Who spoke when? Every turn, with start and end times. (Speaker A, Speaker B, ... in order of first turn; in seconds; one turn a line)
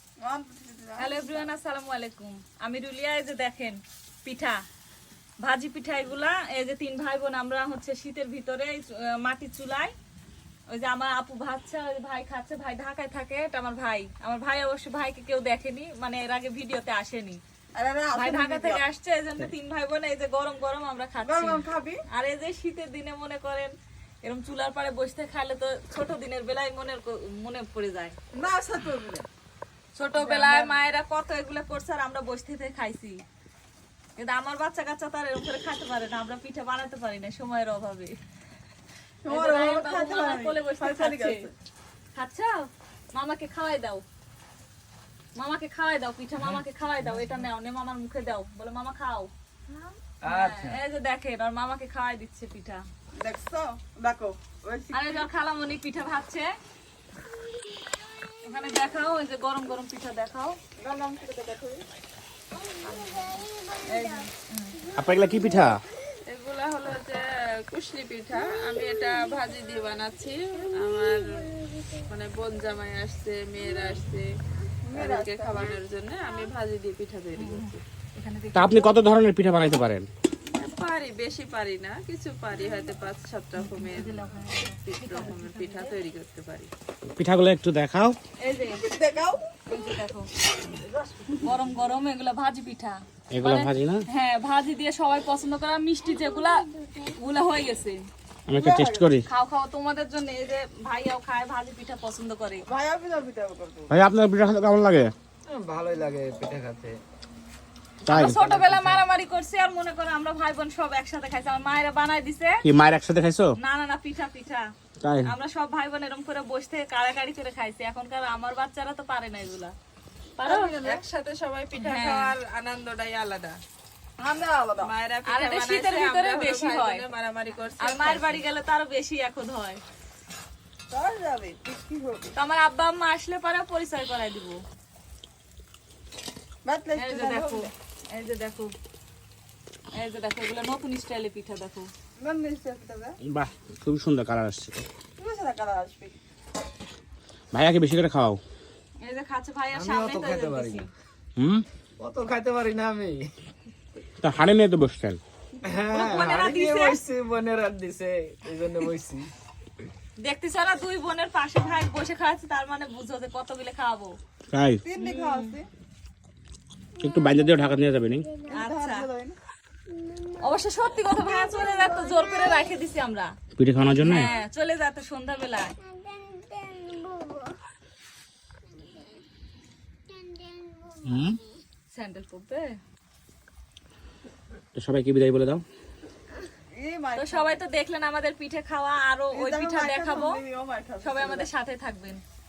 Speaker A: 0.2-1.5
Speaker B: 1.0-4.6
Speaker B: 5.4-9.9
Speaker B: 10.7-17.4
Speaker A: 17.8-18.8
Speaker B: 18.1-23.7
Speaker A: 21.2-22.0
Speaker B: 24.2-28.1
Speaker A: 28.4-29.3
Speaker B: 30.0-33.2
Speaker A: 30.2-30.8
Speaker B: 34.2-38.1
Speaker A: 39.2-41.5
Speaker B: 39.3-41.4
Speaker B: 42.1-44.0
Speaker B: 45.4-52.8
Speaker C: 50.2-50.8
Speaker A: 53.2-55.3
Speaker B: 54.9-56.5
Speaker B: 58.5-60.6
Speaker A: 60.8-61.8
Speaker B: 63.8-64.8
Speaker D: 65.0-65.8
Speaker E: 66.3-74.3
Speaker A: 74.8-75.8
Speaker E: 75.0-77.8
Speaker B: 77.4-79.0
Speaker D: 78.5-80.1
Speaker E: 80.6-86.7
Speaker B: 83.6-86.0
Speaker D: 87.1-88.2
Speaker B: 88.4-88.8
Speaker A: 88.7-89.5
Speaker B: 89.7-90.3
Speaker A: 90.9-91.3
Speaker B: 91.4-98.0
Speaker D: 93.3-94.0
Speaker D: 98.5-99.2
Speaker A: 98.5-99.1
Speaker B: 99.3-102.7
Speaker A: 102.7-104.0
Speaker D: 103.9-105.1
Speaker C: 105.5-107.0
Speaker D: 108.1-108.4
Speaker B: 108.1-112.6
Speaker C: 108.4-108.9
Speaker D: 112.6-113.5
Speaker B: 113.6-114.7
Speaker D: 115.0-115.3
Speaker B: 115.2-119.8
Speaker B: 120.4-120.8
Speaker A: 120.5-121.0
Speaker E: 120.8-123.6
Speaker B: 121.8-122.3
Speaker A: 124.2-124.9
Speaker E: 124.8-128.4
Speaker B: 125.3-127.0
Speaker B: 127.8-129.8
Speaker A: 130.9-132.3
Speaker B: 132.4-134.6
Speaker A: 136.6-137.7
Speaker B: 137.0-138.7
Speaker B: 139.9-141.9
Speaker A: 142.2-143.2
Speaker D: 143.2-144.9
Speaker A: 145.2-146.2
Speaker D: 147.5-148.4
Speaker B: 149.0-150.9
Speaker C: 149.7-150.9
Speaker D: 151.4-151.7
Speaker C: 152.0-153.3
Speaker D: 154.2-155.2
Speaker C: 155.6-159.3
Speaker B: 155.9-157.0
Speaker B: 160.2-164.2
Speaker D: 164.5-164.8
Speaker A: 164.8-165.7
Speaker B: 165.0-165.6
Speaker D: 167.0-168.3
Speaker A: 168.4-169.4
Speaker B: 168.5-169.1
Speaker B: 170.4-173.3
Speaker D: 173.6-174.3
Speaker B: 174.0-175.8
Speaker D: 181.1-181.4
Speaker B: 181.9-182.8
Speaker D: 184.8-185.6
Speaker A: 186.7-187.6
Speaker B: 187.2-190.4
Speaker A: 189.3-191.5
Speaker B: 191.0-192.2